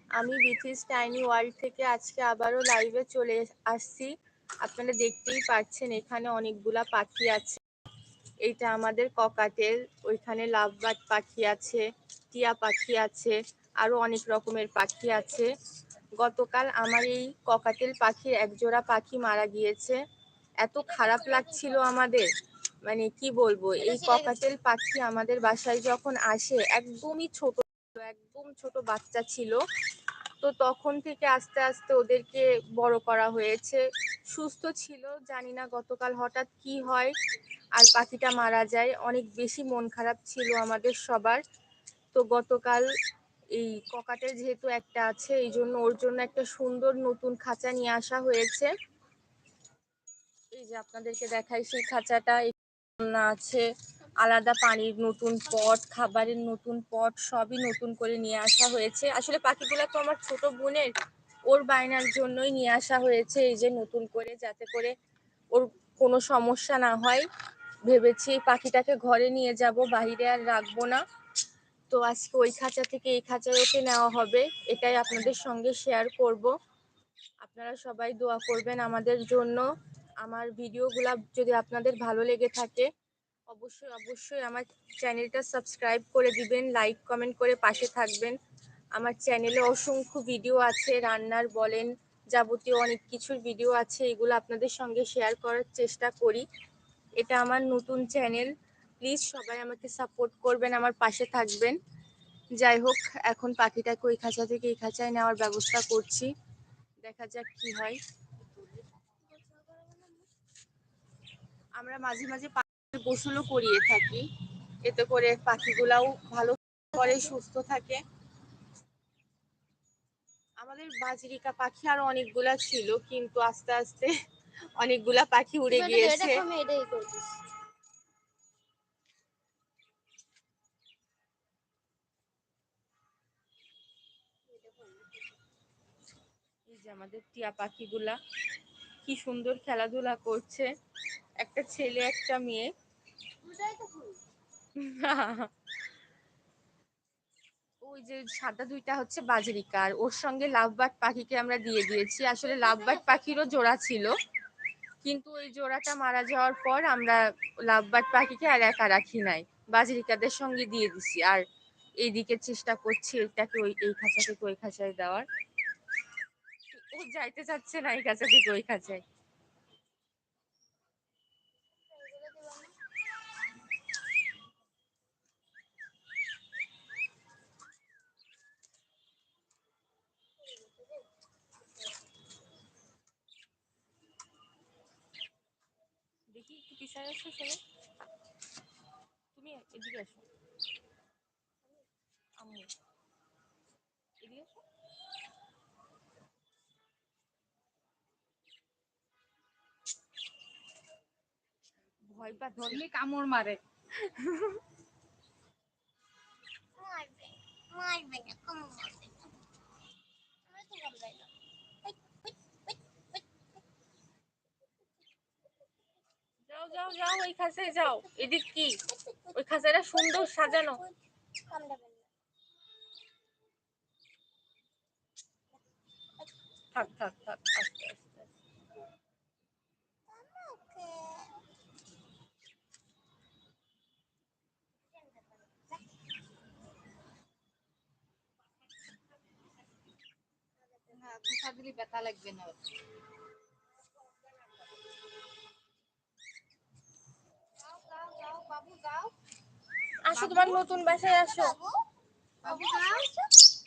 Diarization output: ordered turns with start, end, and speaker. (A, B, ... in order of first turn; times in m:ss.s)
0:00.2-0:04.1 A
0:04.6-0:07.6 A
0:08.4-0:15.5 A
0:16.2-0:20.0 A
0:20.6-0:22.2 A
0:20.8-0:21.9 B
0:22.8-0:29.6 A
0:23.8-0:24.4 B
0:30.4-0:37.1 A
0:37.8-0:41.4 A
0:42.1-0:42.8 A
0:43.5-0:48.7 A
0:50.5-0:53.6 A
0:54.2-1:00.9 A
1:01.5-1:04.9 A
1:05.5-1:07.2 A
1:07.9-1:11.0 A
1:11.9-1:16.5 A
1:17.4-1:19.6 A
1:20.2-1:22.8 A
1:23.5-1:28.4 A
1:29.0-1:36.4 A
1:37.2-1:38.5 A
1:39.0-1:41.7 A
1:42.6-1:46.3 A
1:47.0-1:48.0 A
1:48.8-1:50.3 B
1:51.8-1:54.2 A
1:54.8-1:58.0 A
1:57.0-1:57.3 B
2:00.6-2:04.1 A
2:04.8-2:06.4 A
2:05.7-2:07.4 B
2:14.4-2:15.2 B
2:16.7-2:18.2 A
2:19.0-2:20.7 A
2:21.4-2:22.7 A
2:23.4-2:24.2 B
2:24.8-2:25.5 A
2:27.8-2:34.1 A
2:32.4-2:33.6 B
2:35.0-2:41.4 A
2:42.0-2:45.2 A
2:46.7-2:49.0 A
2:51.9-2:52.7 B
3:00.4-3:01.1 B
3:06.3-3:07.6 A
3:09.3-3:10.2 A
3:12.4-3:12.7 A
3:14.2-3:14.6 A
3:22.1-3:22.8 A
3:22.6-3:23.6 C
3:24.0-3:24.6 A
3:26.8-3:29.3 B
3:30.5-3:31.3 B
3:31.8-3:33.2 B
3:36.5-3:38.8 A
3:37.9-3:38.1 B
3:38.9-3:39.4 B
3:39.3-3:40.8 A
3:39.9-3:42.1 B
3:46.7-3:48.3 A
3:50.1-3:51.4 B
3:54.8-3:55.8 B
4:00.6-4:01.3 B
4:00.9-4:02.6 C
4:07.6-4:09.1 C
4:10.0-4:11.5 A
4:10.1-4:10.7 C
4:10.9-4:11.8 B
4:12.4-4:13.1 C
4:12.4-4:13.3 B